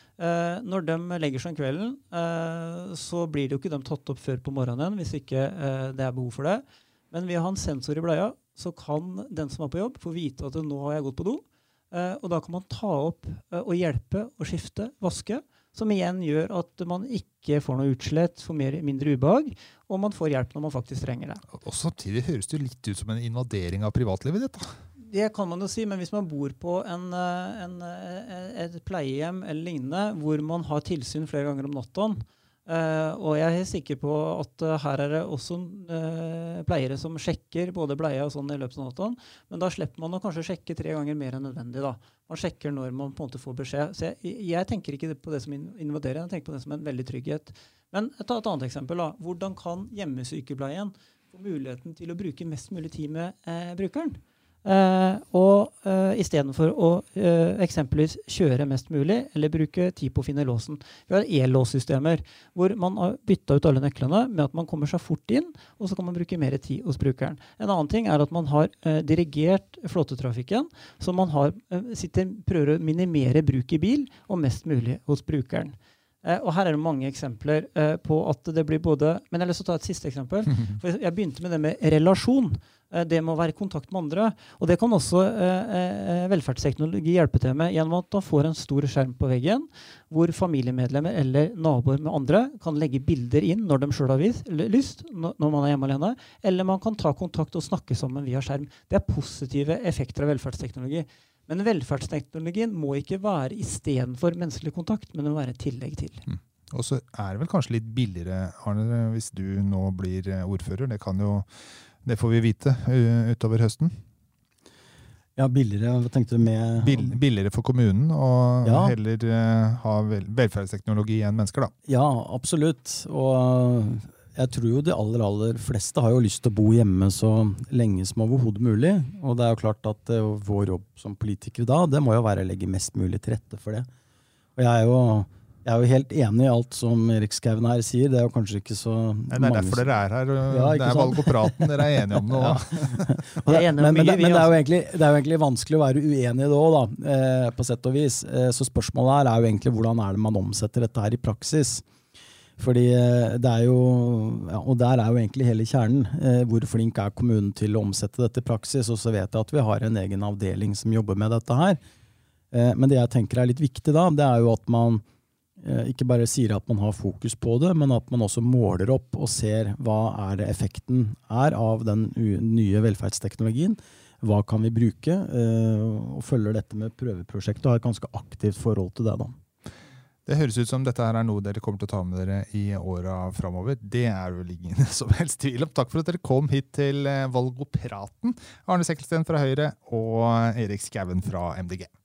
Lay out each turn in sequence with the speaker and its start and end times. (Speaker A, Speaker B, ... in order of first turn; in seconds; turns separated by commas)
Speaker A: 0.2-21.4, Speaker B: 21.5-24.7, Speaker A: 25.0-106.2, Speaker B: 106.3-111.5, Speaker B: 112.0-113.9, Speaker C: 115.4-117.2, Speaker B: 116.8-121.7, Speaker C: 118.6-119.0, Speaker C: 121.9-133.9, Speaker C: 134.6-151.8, Speaker B: 139.3-143.2, Speaker A: 143.5-144.6, Speaker C: 152.6-161.8, Speaker C: 162.5-165.0, Speaker C: 165.6-179.4, Speaker B: 180.3-191.9